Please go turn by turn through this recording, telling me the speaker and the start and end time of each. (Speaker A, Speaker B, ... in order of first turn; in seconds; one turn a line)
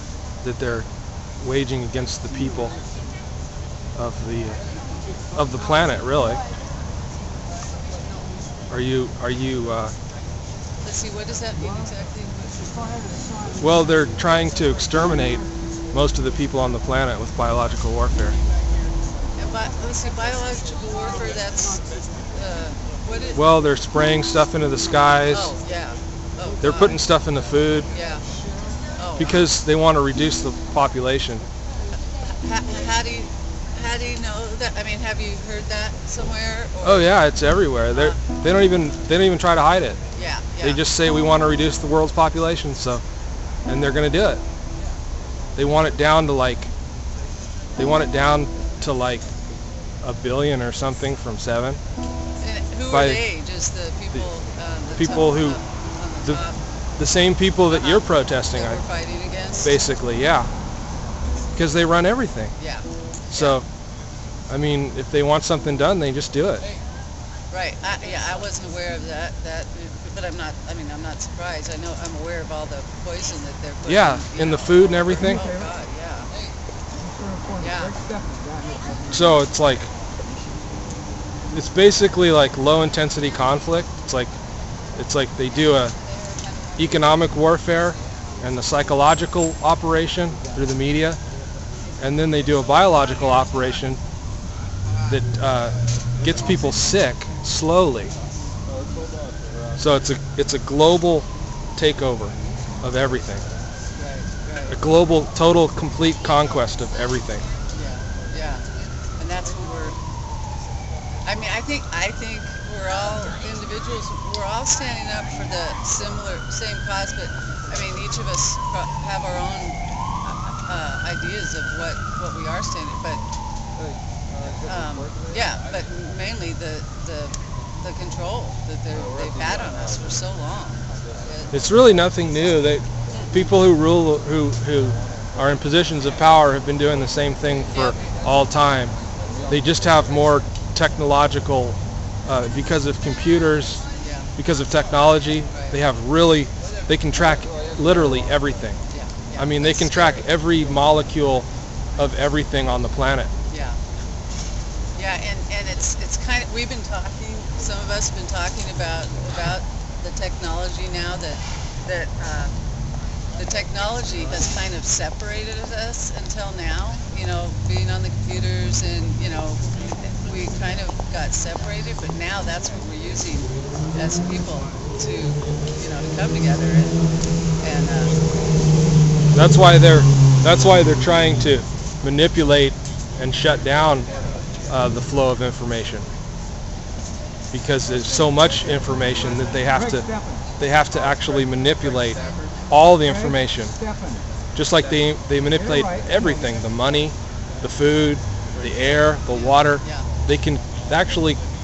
Speaker A: 0.4-0.8
Speaker A: 1.4-2.8
Speaker A: 4.0-4.6
Speaker A: 5.3-6.4
Speaker A: 8.7-9.9
Speaker B: 10.8-12.3
Speaker A: 13.6-18.4
Speaker B: 19.4-23.4
Speaker A: 23.3-25.5
Speaker B: 25.3-27.0
Speaker A: 26.6-27.9
Speaker B: 27.9-28.2
Speaker B: 29.0-29.4
Speaker A: 29.2-31.4
Speaker B: 32.2-37.1
Speaker A: 36.8-40.0
Speaker B: 37.9-38.2
Speaker B: 40.1-40.8
Speaker A: 40.6-43.0
Speaker A: 43.7-44.4
Speaker A: 45.6-46.7
Speaker A: 47.8-49.2
Speaker A: 50.0-51.8
Speaker B: 52.4-56.6
Speaker A: 52.9-53.2
Speaker A: 55.0-55.6
Speaker A: 57.0-58.8
Speaker B: 57.7-59.8
Speaker A: 59.6-60.5
Speaker A: 61.5-62.5
Speaker B: 62.6-63.6
Speaker A: 63.3-63.6
Speaker A: 64.5-66.6
Speaker B: 67.5-76.3
Speaker A: 73.8-75.4
Speaker B: 77.6-78.0
Speaker A: 79.1-79.9
Speaker A: 81.5-84.3
Speaker A: 85.0-85.9
Speaker A: 86.8-91.2
Speaker A: 92.0-94.0
Speaker A: 95.1-98.1
Speaker A: 99.8-101.2
Speaker A: 101.8-103.4
Speaker B: 104.0-104.8
Speaker A: 104.7-107.4
Speaker B: 107.7-108.6
Speaker B: 109.2-110.0
Speaker B: 111.2-123.2
Speaker B: 124.7-131.5
Speaker A: 131.5-138.9
Speaker A: 139.5-143.8
Speaker B: 144.0-144.3
Speaker A: 144.4-148.8
Speaker B: 148.9-150.2
Speaker A: 149.4-151.4
Speaker A: 152.0-153.3
Speaker B: 153.5-153.8
Speaker B: 154.9-162.5
Speaker B: 163.4-176.9
Speaker B: 177.6-178.1
Speaker A: 179.3-184.1
Speaker A: 184.7-186.1
Speaker A: 187.5-190.1
Speaker A: 190.6-193.7
Speaker A: 194.6-201.4
Speaker B: 199.3-200.1